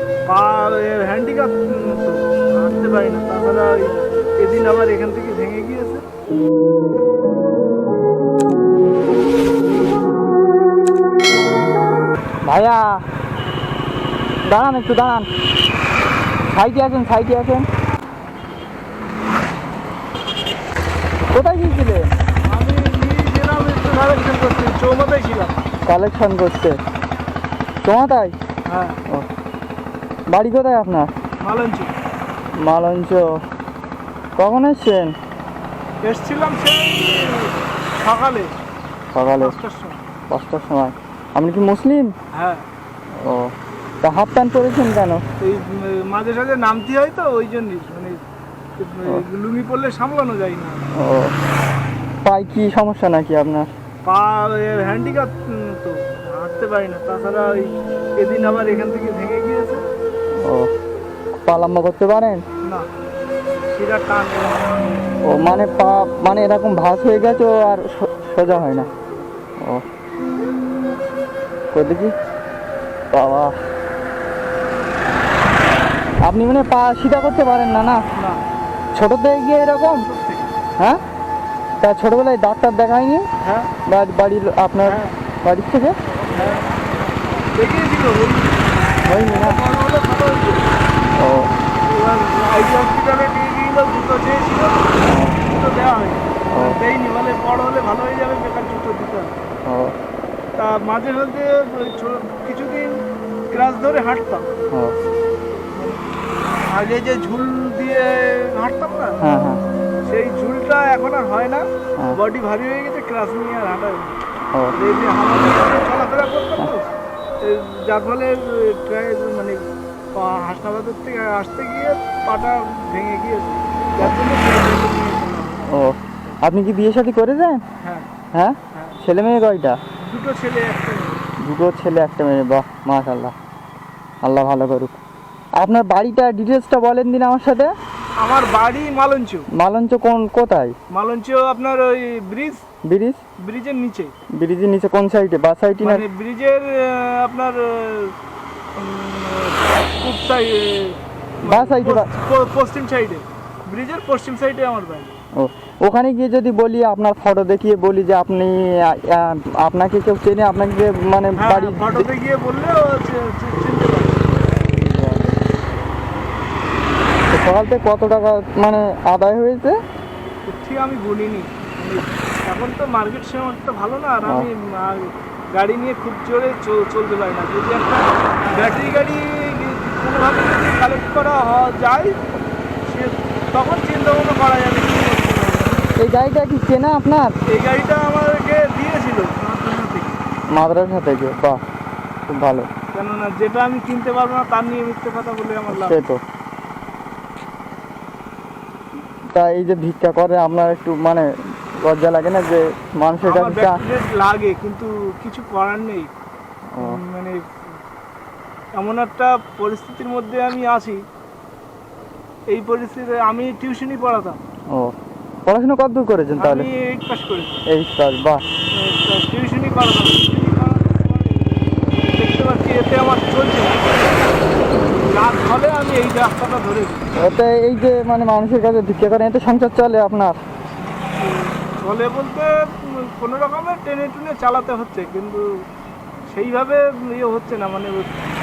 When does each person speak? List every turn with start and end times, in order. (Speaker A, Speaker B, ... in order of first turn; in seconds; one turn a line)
Speaker A: 0.3-6.0
Speaker B: 12.4-13.0
Speaker B: 14.4-15.3
Speaker B: 16.5-17.6
Speaker B: 21.3-22.1
Speaker A: 22.5-25.7
Speaker B: 25.9-26.8
Speaker B: 27.8-28.3
Speaker A: 28.7-29.0
Speaker B: 30.3-31.1
Speaker A: 31.4-31.9
Speaker B: 32.6-33.4
Speaker B: 34.4-35.1
Speaker A: 36.0-38.6
Speaker B: 39.1-39.5
Speaker A: 39.4-40.0
Speaker B: 40.3-42.1
Speaker A: 42.3-42.6
Speaker B: 43.1-43.5
Speaker B: 44.0-45.2
Speaker A: 45.4-48.2
Speaker A: 48.8-50.9
Speaker B: 51.0-51.3
Speaker B: 52.2-53.7
Speaker A: 54.0-59.8
Speaker B: 60.4-60.7
Speaker B: 61.5-62.4
Speaker A: 63.6-65.0
Speaker B: 65.2-68.9
Speaker A: 68.7-69.3
Speaker B: 71.7-72.1
Speaker B: 73.1-73.6
Speaker B: 76.2-78.0
Speaker A: 78.2-78.4
Speaker B: 78.9-80.1
Speaker A: 80.0-80.5
Speaker B: 81.8-83.3
Speaker A: 83.4-83.7
Speaker B: 83.9-86.0
Speaker A: 84.8-85.2
Speaker A: 86.3-86.7
Speaker A: 87.5-90.7
Speaker B: 89.0-89.6
Speaker B: 91.2-91.5
Speaker A: 91.8-99.3
Speaker B: 95.0-95.4
Speaker B: 96.5-96.8
Speaker B: 99.6-99.9
Speaker A: 100.5-104.5
Speaker A: 105.7-106.1
Speaker A: 106.7-109.2
Speaker B: 109.2-109.6
Speaker A: 110.0-114.2
Speaker A: 114.7-116.9
Speaker A: 117.4-119.6
Speaker A: 120.1-125.8
Speaker B: 125.7-127.6
Speaker A: 127.8-128.1
Speaker B: 128.3-129.8
Speaker A: 128.7-129.0
Speaker A: 130.0-131.2
Speaker B: 131.4-133.3
Speaker B: 134.2-135.0
Speaker B: 135.6-137.7
Speaker A: 138.2-139.5
Speaker B: 139.5-140.7
Speaker A: 140.9-142.6
Speaker B: 142.9-143.2
Speaker A: 143.4-144.1
Speaker B: 144.4-146.0
Speaker A: 145.8-148.1
Speaker A: 148.8-155.1
Speaker B: 151.4-152.1
Speaker B: 155.4-162.1
Speaker A: 161.4-164.3
Speaker B: 164.7-165.3
Speaker B: 167.3-169.7
Speaker A: 170.4-182.2
Speaker A: 182.8-185.9
Speaker B: 186.0-187.3
Speaker A: 187.5-190.2
Speaker B: 190.5-191.6
Speaker B: 192.3-192.7
Speaker A: 192.9-196.0
Speaker B: 195.7-196.2
Speaker B: 199.3-201.3
Speaker B: 201.8-203.8
Speaker A: 203.2-206.1
Speaker B: 206.7-207.0
Speaker A: 206.8-207.4
Speaker A: 208.8-211.0
Speaker A: 212.5-214.4
Speaker B: 215.4-216.7
Speaker A: 216.3-217.6
Speaker B: 217.7-218.4
Speaker A: 218.7-221.5
Speaker A: 222.1-223.9
Speaker A: 225.1-227.1
Speaker B: 227.2-230.4
Speaker A: 231.2-235.5
Speaker A: 236.3-238.1